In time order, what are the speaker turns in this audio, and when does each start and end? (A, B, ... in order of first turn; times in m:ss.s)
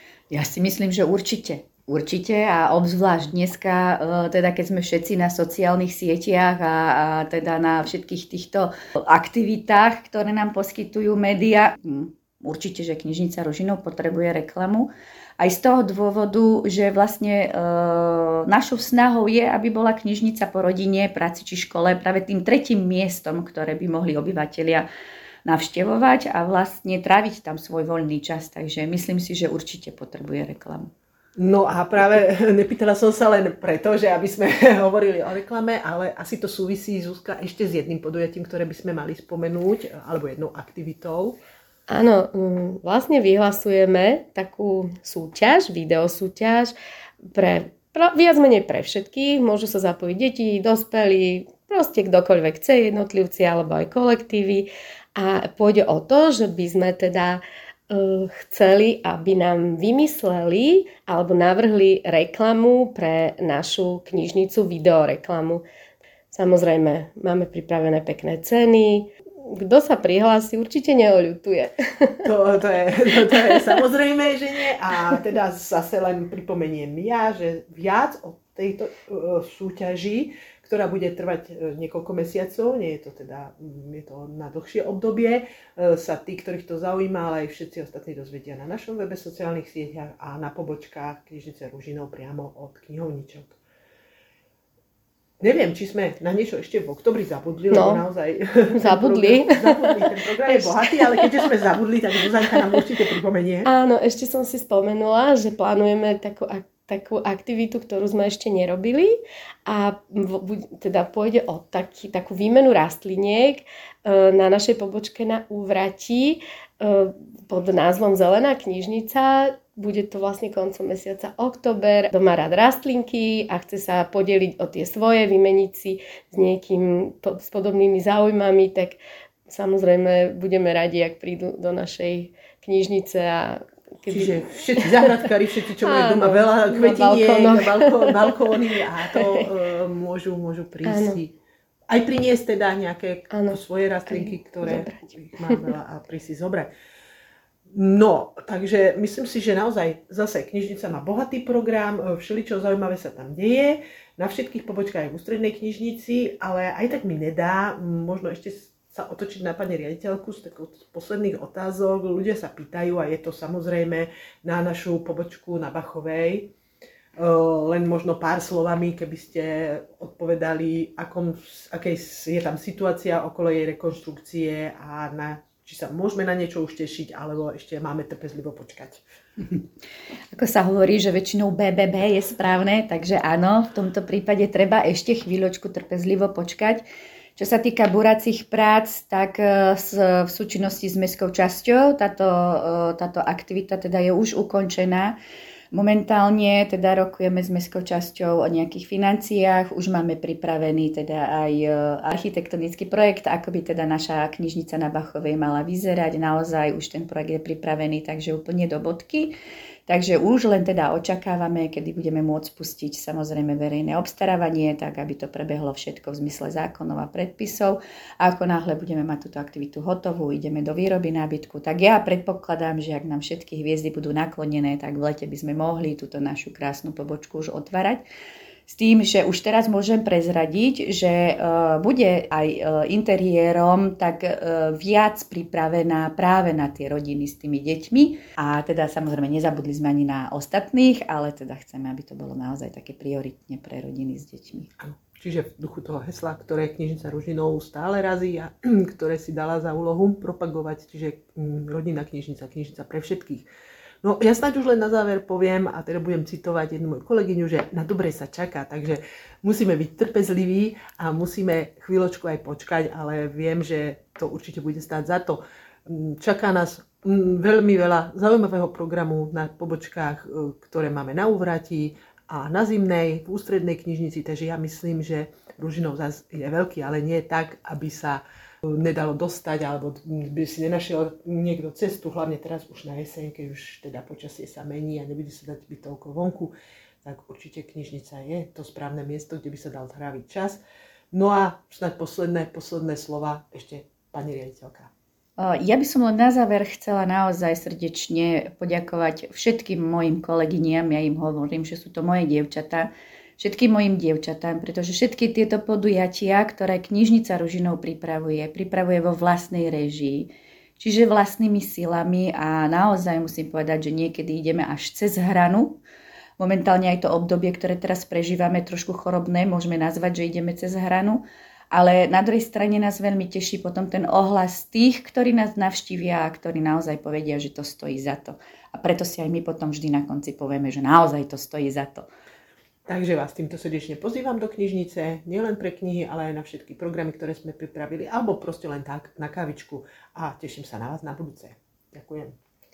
0:00.3-0:24.9 A
0:25.4-0:30.9 A
0:31.4-0:41.4 B
0:41.9-0:46.7 C
0:47.3-1:05.6 C
1:06.3-1:12.3 C
1:12.2-1:33.6 B
1:35.4-1:43.7 B
1:37.7-1:38.0 C
1:38.8-1:41.2 C
1:43.6-1:49.2 C
1:49.7-2:15.1 C
2:14.1-2:21.4 B
2:15.8-2:18.5 C
2:19.1-2:19.5 C
2:20.8-2:21.2 C
2:21.9-2:26.7 B
2:23.3-2:25.7 C
2:27.7-2:46.5 B
2:47.2-2:59.0 B
3:00.3-3:06.8 A
3:07.4-3:15.2 A
3:15.7-3:29.3 A
3:29.9-3:48.0 A
3:48.7-4:04.7 A
4:04.8-4:13.5 B
4:14.0-4:50.6 B
4:51.1-4:54.9 B
4:55.4-5:15.8 A
5:16.4-5:32.1 A
5:32.9-5:42.4 B